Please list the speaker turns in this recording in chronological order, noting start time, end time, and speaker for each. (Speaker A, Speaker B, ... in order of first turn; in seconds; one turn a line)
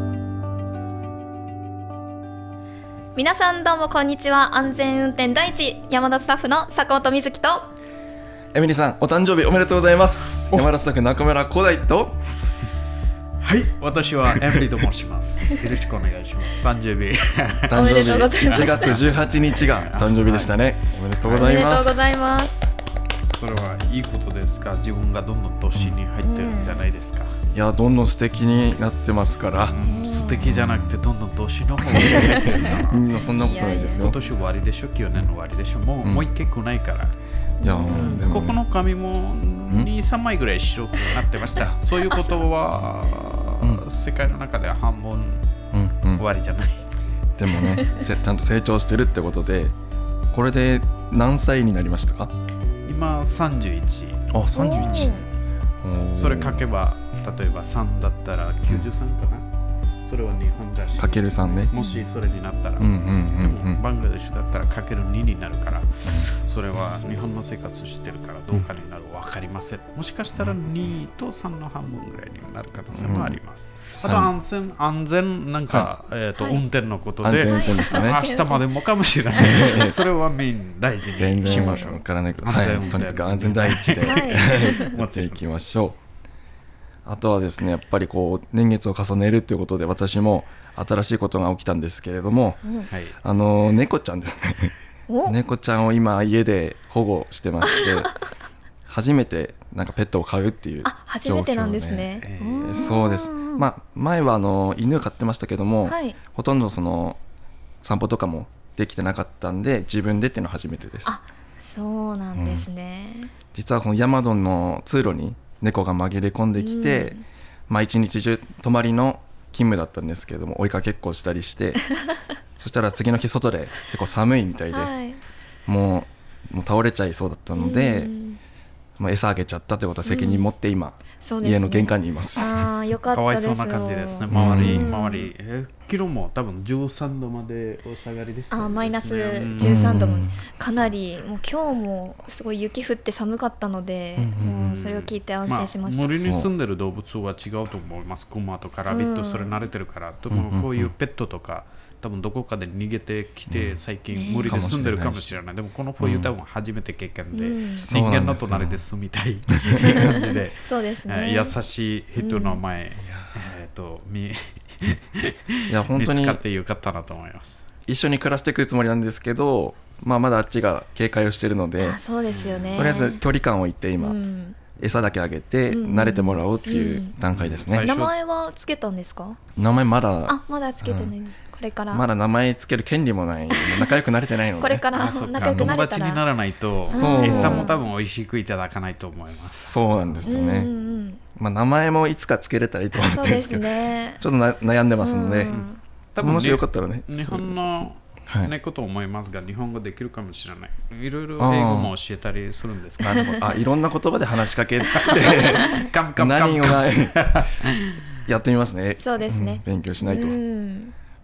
Speaker A: 3.1-7.7
Speaker B: 8.5-12.2
Speaker C: 13.4-20.5
Speaker B: 14.3-14.8
Speaker B: 17.7-22.2
Speaker A: 17.7-18.9
Speaker C: 21.2-21.6
Speaker A: 21.3-22.7
Speaker C: 23.3-27.4
Speaker A: 26.2-26.8
Speaker B: 27.5-29.8
Speaker C: 29.6-33.1
Speaker A: 29.8-30.4
Speaker B: 30.4-31.0
Speaker B: 31.8-34.2
Speaker A: 32.1-34.1
Speaker C: 33.8-37.1
Speaker B: 36.0-36.3
Speaker A: 37.6-38.3
Speaker B: 37.6-38.6
Speaker C: 37.9-45.5
Speaker B: 45.7-46.2
Speaker C: 46.1-46.8
Speaker B: 47.4-49.7
Speaker B: 50.3-52.3
Speaker C: 52.9-55.2
Speaker B: 54.3-55.2
Speaker A: 54.5-55.3
Speaker B: 55.8-56.6
Speaker C: 56.1-59.5
Speaker C: 60.0-85.4
Speaker B: 61.0-61.7
Speaker A: 61.8-62.0
Speaker B: 62.8-63.8
Speaker B: 70.3-70.9
Speaker B: 72.9-73.4
Speaker B: 73.9-74.3
Speaker A: 76.4-76.6
Speaker B: 77.2-78.2
Speaker A: 77.4-78.6
Speaker B: 79.4-80.0
Speaker A: 79.5-79.9
Speaker B: 81.2-86.0
Speaker A: 81.4-81.9
Speaker A: 84.0-85.0
Speaker B: 87.0-92.6
Speaker C: 92.9-93.2
Speaker B: 93.2-98.1
Speaker A: 95.1-95.4
Speaker B: 98.9-107.2
Speaker A: 100.8-103.7
Speaker C: 102.2-102.9
Speaker A: 105.8-106.2
Speaker B: 107.8-111.1
Speaker A: 111.0-113.3
Speaker B: 112.3-112.7
Speaker B: 113.5-121.8
Speaker A: 116.6-117.2
Speaker B: 122.6-124.9
Speaker A: 124.7-125.2
Speaker B: 125.7-128.1
Speaker A: 127.5-128.4
Speaker B: 129.0-132.7
Speaker A: 130.0-130.5
Speaker A: 131.2-135.3
Speaker C: 133.1-140.0
Speaker B: 134.3-134.9
Speaker A: 138.5-146.2
Speaker B: 139.6-140.4
Speaker B: 144.2-144.6
Speaker C: 144.5-167.6
Speaker A: 148.9-149.6
Speaker B: 150.3-150.9
Speaker B: 153.5-153.8
Speaker A: 154.1-154.6
Speaker B: 154.5-155.4
Speaker B: 156.0-156.3
Speaker A: 157.3-157.9
Speaker B: 157.8-158.8
Speaker B: 159.7-160.0
Speaker A: 159.8-161.5
Speaker A: 162.2-162.6
Speaker B: 163.0-163.5
Speaker B: 165.7-166.4
Speaker B: 167.8-172.0
Speaker A: 171.8-173.2
Speaker C: 172.3-173.0
Speaker B: 172.7-174.2
Speaker A: 174.0-174.6
Speaker B: 174.8-177.9
Speaker A: 175.7-177.1
Speaker C: 177.3-178.1
Speaker A: 177.8-179.4
Speaker B: 179.6-181.1
Speaker A: 180.2-182.0
Speaker B: 181.9-185.8
Speaker A: 183.5-184.0
Speaker A: 184.6-186.2
Speaker C: 184.9-190.3
Speaker A: 186.9-187.8
Speaker B: 186.9-187.7
Speaker B: 189.3-190.7
Speaker A: 190.2-191.2
Speaker B: 191.3-195.6
Speaker A: 193.0-194.2
Speaker A: 195.0-195.8
Speaker C: 195.5-203.3
Speaker B: 196.2-197.6
Speaker B: 198.3-198.5
Speaker B: 201.4-201.9
Speaker B: 203.0-207.5
Speaker C: 204.9-208.1
Speaker A: 205.4-205.9
Speaker B: 208.2-210.4
Speaker A: 209.0-210.9